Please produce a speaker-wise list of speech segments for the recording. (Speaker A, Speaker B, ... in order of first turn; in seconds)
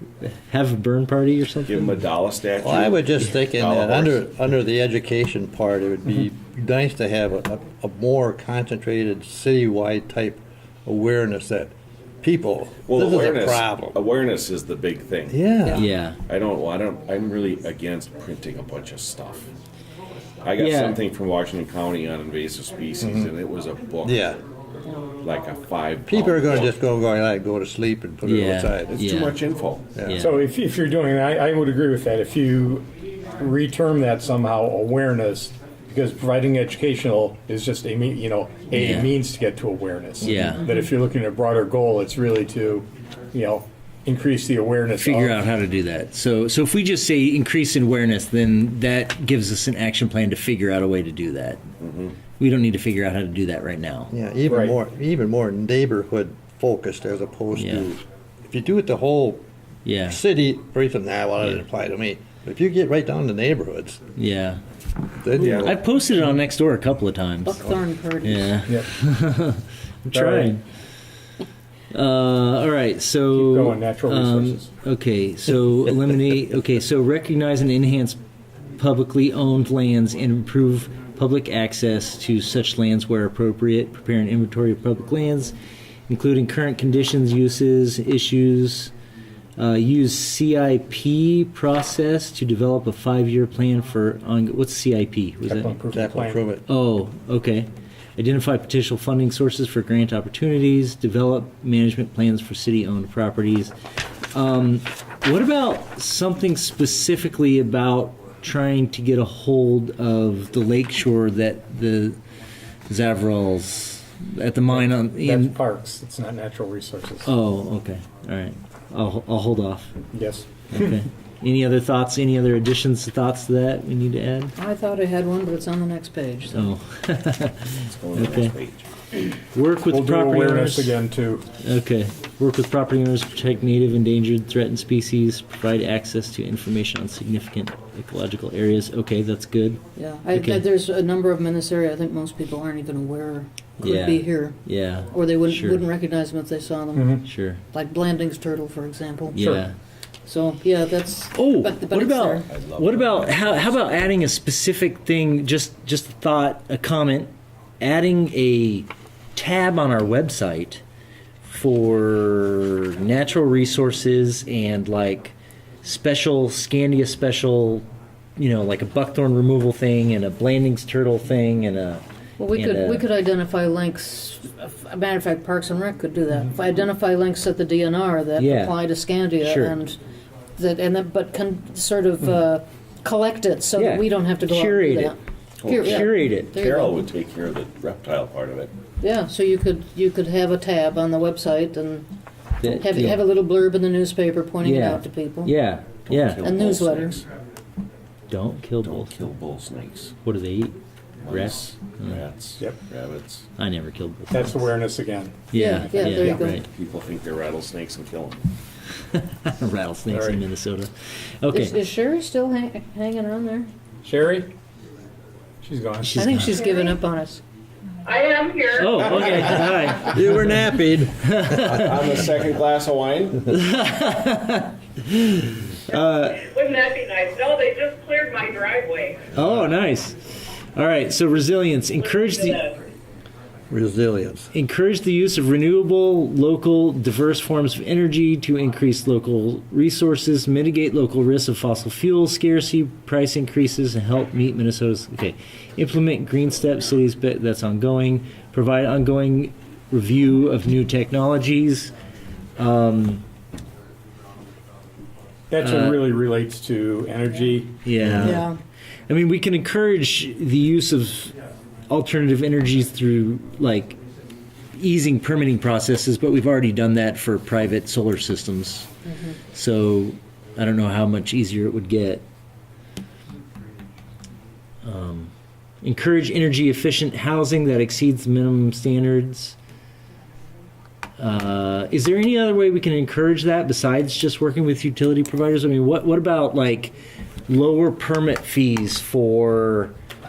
Speaker A: 0.2-1.9, 15.7-16.2, 20.6-21.0, 28.2-29.4, 30.0-30.4, 38.7-39.1, 40.2-40.7, 45.0-51.6, 52.4-54.1, 57.5-57.9, 59.9-60.2, 64.2-64.6, 65.5-70.6, 71.9-78.2, 78.8-85.5, 86.1-88.9, 89.6-95.8, 96.7-103.7, 104.3-112.2, 112.9-115.6, 117.2-119.9, 120.7-124.5, 126.5-128.5, 129.5-131.0, 131.6-139.8, 140.3-140.6, 143.8-145.8, 147.2-147.6, 149.3-149.7, 151.3-160.8, 161.4-167.8, 168.4-173.1, 178.4-178.8, 179.4-179.8, 183.8-185.2, 185.7-186.5, 192.6-193.2, 194.6-196.5, 198.3-199.1, 200.2-200.8, 201.3-202.2, 203.6-204.7, 205.5-206.6, 209.1-211.8, 216.0-216.6, 218.7-220.7, 221.2-222.1, 223.5-226.4, 229.3-232.6, 234.5-251.9, 252.6-253.2, 255.6-256.0, 257.8-258.5, 259.1-261.3, 261.9-264.0, 264.7-268.9, 269.5-272.2, 274.8-275.3, 275.8-279.6, 281.2-286.9, 287.5-289.9
Speaker B: 1.6-4.2, 12.9-15.4, 16.2-19.5, 20.4-24.4, 25.1-26.7, 28.9-29.9, 51.8-52.1, 65.3-65.7, 127.7-128.8, 152.5-154.0, 185.6-188.7, 196.0-197.2, 198.8-200.1, 201.2-203.5, 206.3-208.4, 218.9-219.9, 221.6-223.5
Speaker C: 2.6-14.0, 15.3-15.8, 23.0-23.3, 24.0-24.4, 26.1-28.9, 54.1-59.4, 60.0-64.0, 65.2-65.8, 95.9-96.6, 220.0-221.8, 233.7-234.5
Speaker D: 30.1-32.8, 33.4-45.4, 54.5-54.7, 68.7-68.9, 70.1-70.6, 73.3-74.7, 95.4-96.4, 114.7-117.3, 120.1-121.0, 129.9-131.4, 146.9-147.2, 204.3-206.5, 210.1-210.4, 214.0-214.5, 215.6-216.2, 255.5-258.2
Speaker E: 67.4-68.6, 124.5-126.7, 140.0-147.2, 147.7-149.6, 150.2-152.5, 172.4-180.0, 180.6-187.0, 189.0-192.1, 192.6-195.5, 196.4-197.2, 205.5-206.6, 211.5-213.7, 216.1-217.4, 218.1-218.7, 258.2-258.6
Speaker F: 218.1-219.1, 226.4-229.3, 232.0-232.6